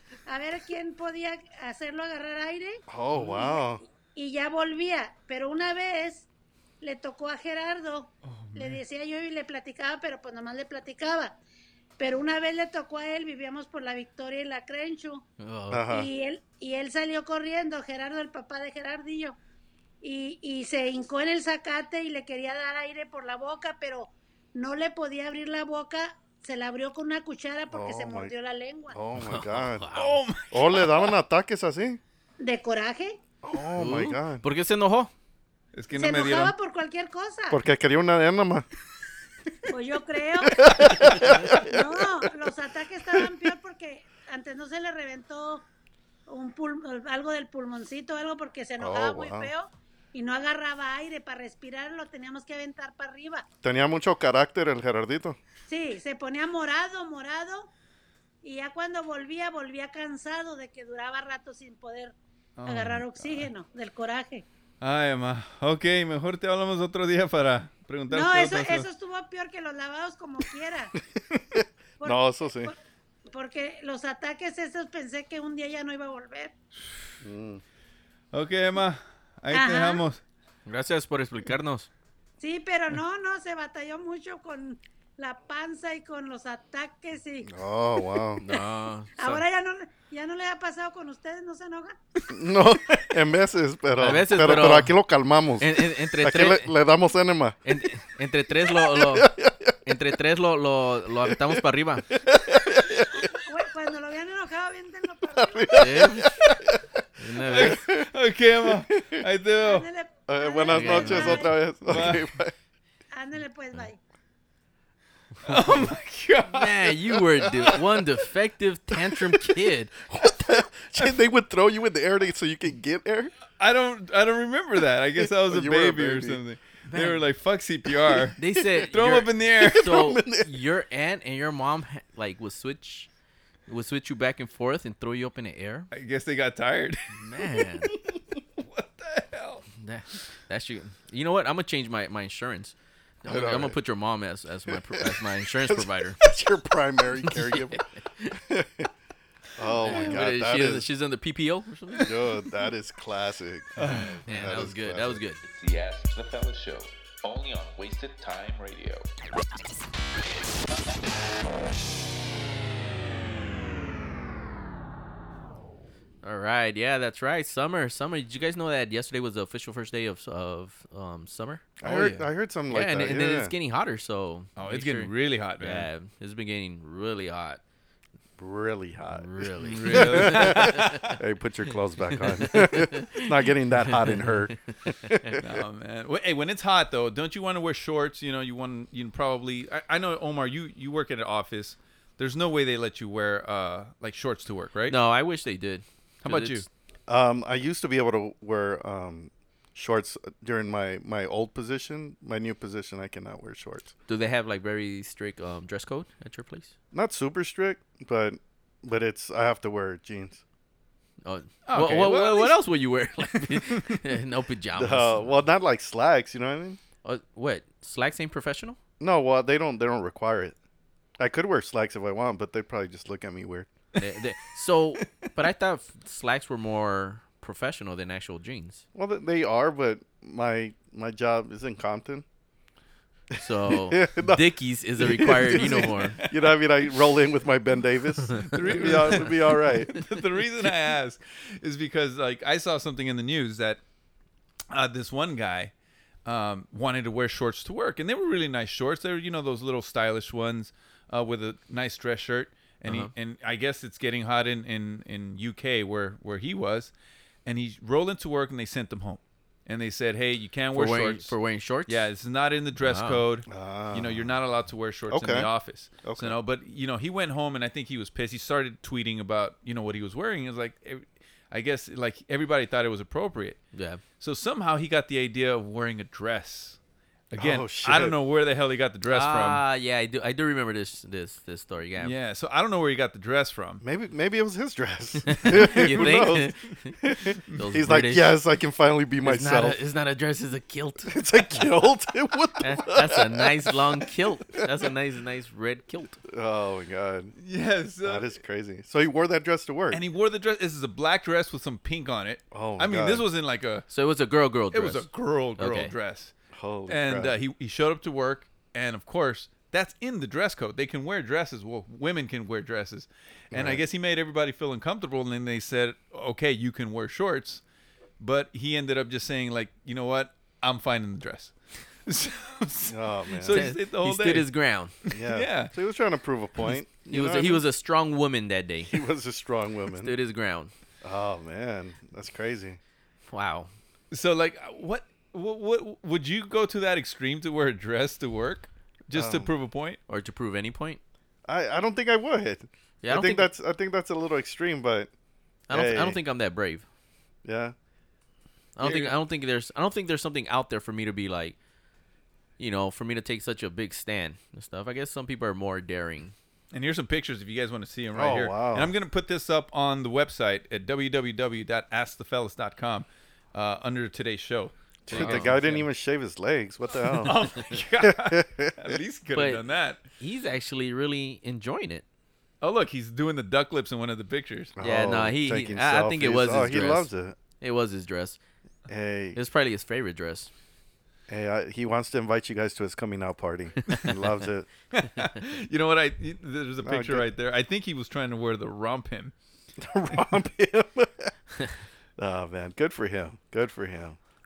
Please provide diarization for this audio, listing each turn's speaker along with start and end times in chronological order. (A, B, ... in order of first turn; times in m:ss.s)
0:00.2-0:02.8 A
0:02.9-0:03.8 B
0:03.4-0:03.6 A
0:04.1-0:06.3 A
0:06.8-0:11.4 A
0:08.2-0:08.8 C
0:12.0-0:15.2 A
0:15.4-0:15.9 D
0:15.7-0:16.1 B
0:15.9-0:19.4 A
0:20.0-0:29.0 A
0:27.7-0:28.3 B
0:28.9-0:29.9 B
0:29.2-0:30.2 D
0:30.0-0:31.1 C
0:30.5-0:32.0 B
0:32.4-0:33.2 A
0:33.4-0:34.4 B
0:33.8-0:35.1 D
0:35.7-0:36.6 C
0:35.9-0:37.6 A
0:37.5-0:38.6 B
0:39.7-0:41.0 A
0:40.5-0:41.9 B
0:41.0-0:41.6 D
0:41.6-0:45.6 A
0:46.3-0:53.4 A
0:48.8-0:49.5 B
0:53.6-0:55.4 B
0:55.7-0:57.7 A
0:58.4-1:02.1 A
1:02.6-1:03.5 C
1:02.6-1:04.4 A
1:04.8-1:08.9 C
1:08.1-1:10.9 A
1:12.0-1:16.5 A
1:12.0-1:12.7 B
1:17.2-1:17.6 B
1:18.3-1:20.2 C
1:19.5-1:20.0 A
1:20.6-1:21.9 D
1:22.4-1:27.5 A
1:27.4-1:28.4 B
1:28.4-1:29.4 D
1:29.2-1:32.0 A
1:32.3-1:37.6 B
1:34.0-1:34.9 D
1:35.6-1:36.7 D
1:37.6-1:39.3 D
1:38.6-1:39.7 B
1:39.8-1:42.0 D
1:41.2-1:41.6 B
1:42.1-1:43.3 B
1:43.2-1:45.9 A
1:45.4-1:46.4 B
1:45.7-1:46.3 D
1:47.2-1:47.9 D
1:47.5-1:49.9 C
1:47.6-1:48.0 B
1:48.6-1:49.2 B
1:49.6-1:51.5 A
1:50.3-1:52.5 B
1:50.7-1:51.5 D
1:51.9-1:52.3 C
1:53.1-1:54.0 A
1:55.4-1:56.9 C
1:56.4-1:59.9 D
2:00.1-2:03.3 B
2:03.6-2:09.9 C
2:05.2-2:06.4 B
2:06.9-2:07.2 D
2:08.1-2:08.3 B
2:08.4-2:13.1 D
2:09.6-2:10.5 B
2:13.7-2:15.9 D
2:15.9-2:17.0 C
2:17.1-2:17.9 D
2:18.6-2:19.6 C
2:19.8-2:26.2 D
2:23.3-2:23.8 B
2:25.0-2:27.8 B
2:27.3-2:28.4 D
2:28.4-2:28.9 B
2:29.6-2:30.9 B
2:29.8-2:32.1 D
2:32.0-2:35.2 B
2:33.8-2:34.1 C
2:34.2-2:35.4 D
2:35.4-2:39.1 E
2:46.2-2:57.6 D
2:51.8-2:53.5 B
2:54.6-2:55.9 C
2:58.4-3:05.4 B
2:59.1-3:01.1 D
2:59.6-3:01.1 C
3:02.2-3:03.3 D
3:03.9-3:05.4 D
3:05.4-3:15.0 C
3:14.9-3:16.7 D
3:16.2-3:16.6 C
3:17.1-3:23.9 B
3:24.1-3:26.7 D
3:26.9-3:30.4 B
3:31.2-3:35.3 D
3:31.6-3:32.6 C
3:34.7-3:36.8 B
3:37.0-3:38.8 D
3:39.0-3:40.6 B
3:41.2-3:43.7 B
3:44.0-3:48.8 D
3:48.9-3:52.2 B
3:53.4-3:54.4 B
3:53.4-3:56.2 D
3:55.0-3:59.9 B
3:55.5-3:56.4 C
3:58.3-3:59.3 D
3:58.5-4:03.8 C
4:04.7-4:05.7 C
4:06.2-4:16.9 C
4:12.9-4:13.1 D
4:17.4-4:21.4 C
4:20.7-4:22.1 D
4:21.9-4:33.6 C
4:22.8-4:23.2 D
4:23.5-4:24.3 B
4:25.1-4:25.5 B
4:26.0-4:26.4 B
4:33.7-4:34.0 D
4:34.2-4:36.8 C
4:37.3-4:39.6 C
4:37.3-4:38.2 B
4:39.1-4:42.1 D
4:42.0-4:43.8 C
4:43.8-4:49.8 B
4:45.2-4:48.4 D
4:49.2-4:51.3 D
4:51.1-4:53.7 B
4:52.6-4:56.2 D
4:56.2-4:57.3 B
4:57.4-4:58.3 C
4:58.0-5:00.0 B
4:59.9-5:03.9 C
5:02.5-5:03.2 B
5:03.9-5:05.9 D
5:04.7-5:06.3 C
5:06.5-5:07.4 B
5:06.9-5:17.6 C
5:13.5-5:13.8 B
5:18.2-5:21.5 C
5:22.1-5:24.5 C
5:22.9-5:23.7 B
5:23.5-5:24.9 D
5:25.1-5:25.7 C
5:25.1-5:27.6 B
5:27.1-5:29.0 D
5:28.9-5:30.2 B
5:30.0-5:30.7 D
5:31.0-5:32.8 B
5:33.3-5:33.7 D
5:34.1-5:40.0 C
5:39.1-5:39.5 B
5:40.1-5:41.0 D
5:41.4-5:45.1 B
5:43.0-5:43.5 D
5:45.7-5:46.9 D
5:45.7-5:46.2 B
5:47.4-5:47.7 B
5:48.8-5:51.6 D
5:48.8-5:49.1 B
5:52.6-5:56.3 D
5:56.7-6:05.8 C
5:58.1-5:58.9 B
6:05.1-6:09.0 B
6:05.1-6:05.5 D
6:07.1-6:10.0 C
6:09.3-6:09.6 D
6:10.2-6:12.0 D
6:12.6-6:14.7 C
6:14.8-6:17.4 B
6:14.8-6:18.4 D
6:18.9-6:19.4 B
6:19.4-6:20.5 D
6:21.3-6:24.7 B
6:24.9-6:29.3 C
6:26.8-6:27.3 B
6:29.8-6:31.3 B
6:32.2-6:34.2 B